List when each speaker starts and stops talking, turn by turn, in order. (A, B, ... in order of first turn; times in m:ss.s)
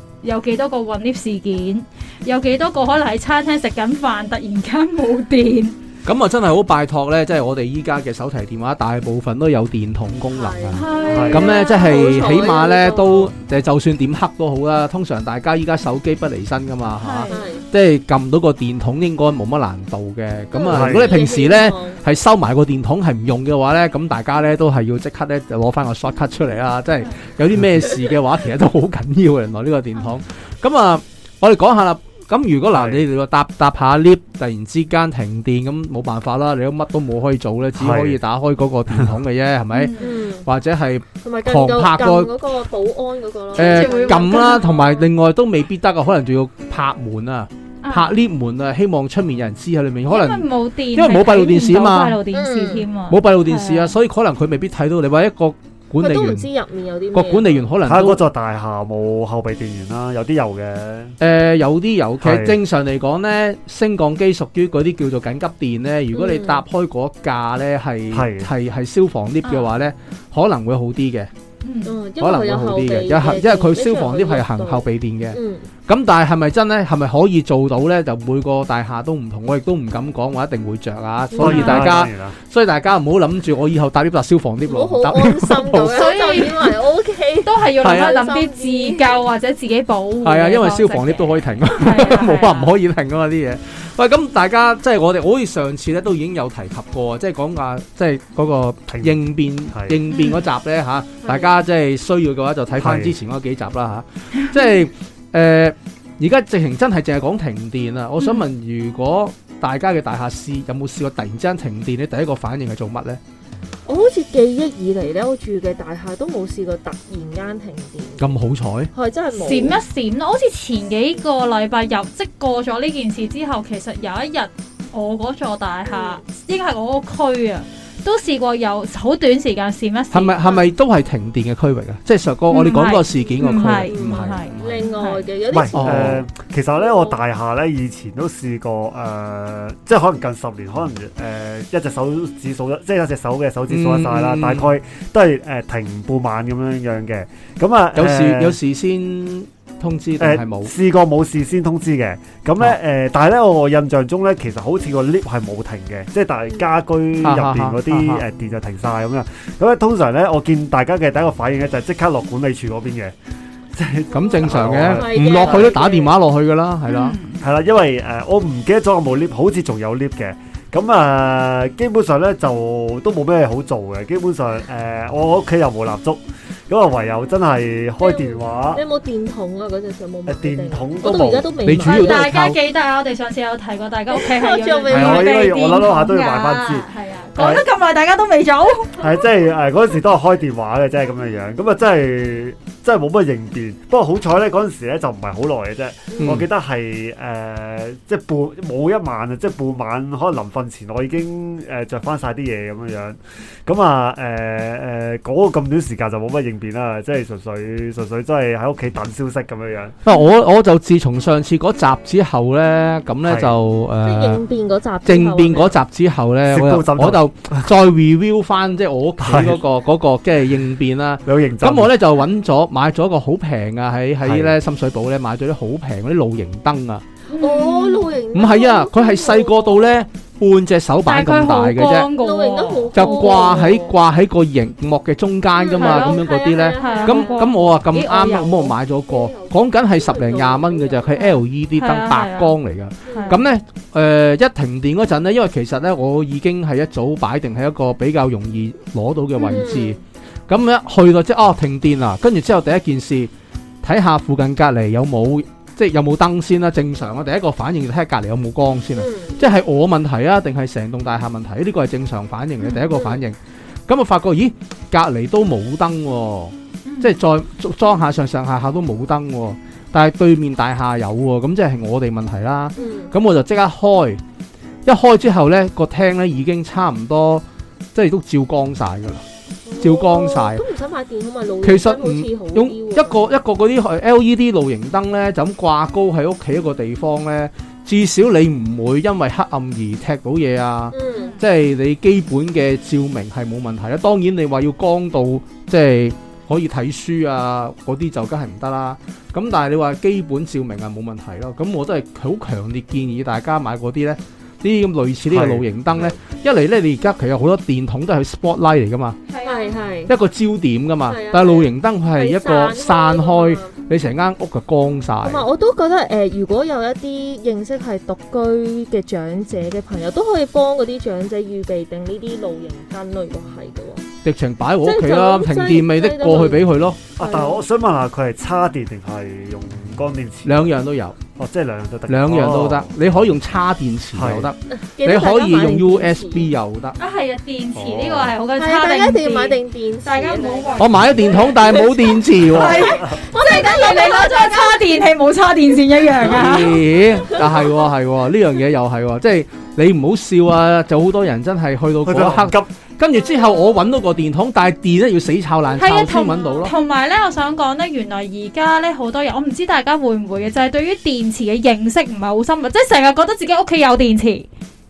0:00.2-0:05.7 A
0:06.0-0:42.3 B
0:10.3-0:13.3 C
0:10.7-0:12.3 A
0:11.1-0:11.5 D
0:17.0-0:17.4 A
0:17.3-0:17.6 C
0:20.5-0:22.0 C
0:20.7-0:21.2 D
0:32.7-0:33.0 D
0:37.8-0:38.2 D
0:39.7-0:40.2 A
0:40.0-0:40.5 C
0:41.2-0:45.0 C
0:43.5-0:44.7 A
0:43.6-0:52.2 B
0:47.8-0:48.2 A
0:50.1-0:54.0 A
0:52.3-0:52.9 C
0:53.1-0:56.5 B
0:56.0-0:57.6 C
0:57.1-0:58.2 B
0:57.8-1:01.2 D
1:01.2-1:11.3 B
1:02.2-1:02.6 D
1:06.1-1:06.6 C
1:08.1-1:08.5 D
1:09.4-1:09.7 A
1:11.6-1:12.0 A
1:11.8-1:15.7 C
1:12.2-1:26.0 B
1:21.3-1:21.8 C
1:21.3-1:22.3 D
1:21.4-1:21.8 A
1:24.6-1:29.2 C
1:25.9-1:26.7 A
1:27.4-1:32.7 A
1:27.8-1:28.1 B
1:30.2-1:53.2 B
1:38.9-1:39.2 D
1:39.7-1:40.0 D
1:40.1-1:40.4 A
1:41.2-1:41.5 C
1:42.8-1:43.1 D
1:48.2-1:48.4 A
1:53.8-1:58.3 C
1:58.2-1:58.9 B
1:58.9-1:59.8 C
1:59.3-2:10.4 A
2:05.9-2:06.2 C
2:10.1-2:14.7 B
2:12.5-2:15.2 A
2:13.9-2:16.1 C
2:15.5-2:28.6 D
2:15.7-2:16.2 B
2:16.8-2:17.2 C
2:23.7-2:24.7 B
2:27.9-2:30.7 B
2:30.2-2:43.1 D
2:37.2-2:38.2 B
2:43.7-2:45.8 D
2:44.1-2:47.2 B
2:44.1-2:46.1 C
2:46.9-2:47.4 A
2:47.4-2:58.8 D
2:58.0-3:02.2 C
3:00.3-3:01.5 D
3:01.6-3:02.6 B
3:01.8-3:09.0 A
3:04.1-3:05.5 C
3:04.9-3:07.6 D
3:09.0-3:30.0 D
3:16.1-3:16.4 C
3:16.2-3:16.4 B
3:30.0-3:34.4 B
3:33.2-3:33.6 D
3:34.0-3:35.8 C
3:35.0-3:47.0 B
3:36.5-3:37.7 D
3:39.2-3:39.6 D
3:41.2-3:41.9 D
3:44.2-3:44.5 D
3:47.3-3:48.1 A
3:47.4-3:49.9 C
3:48.3-3:52.1 B
3:51.0-3:53.6 A
3:52.2-3:54.0 C
3:52.9-4:13.3 B
3:55.5-3:57.6 C
3:55.8-3:58.7 A
3:59.1-4:01.4 C
4:01.8-4:02.5 A
4:03.0-4:03.4 C
4:03.1-4:03.4 A
4:09.4-4:10.0 C
4:13.8-4:34.2 B
4:18.9-4:19.4 C
4:22.6-4:22.8 A
4:22.9-4:23.2 C
4:26.8-4:27.1 A
4:32.8-4:33.1 C
4:34.8-4:39.2 B
4:39.6-4:43.3 C
4:39.8-4:40.6 B
4:41.6-5:09.2 B
4:50.9-4:51.3 C
4:51.1-4:51.4 A
5:05.3-5:05.6 D
5:09.3-5:09.7 A
5:09.4-5:10.1 C
5:10.1-5:15.4 B
5:11.0-5:13.8 C
5:15.2-5:24.0 C
5:24.2-5:27.0 B
5:24.8-5:26.7 C
5:27.2-5:30.7 D
5:27.2-5:27.6 C
5:30.4-5:31.2 B
5:31.4-5:33.2 D
5:32.1-5:37.0 B
5:34.1-5:34.5 D
5:34.7-5:36.5 C
5:37.0-5:41.9 A
5:37.7-5:38.4 D
5:38.6-5:45.0 C
5:40.8-5:42.9 B
5:42.5-5:46.8 A
5:42.7-5:43.0 D
5:46.2-5:56.7 B
5:46.5-5:47.7 C
5:52.0-5:52.7 D
5:53.3-5:53.7 C
5:55.8-6:04.5 A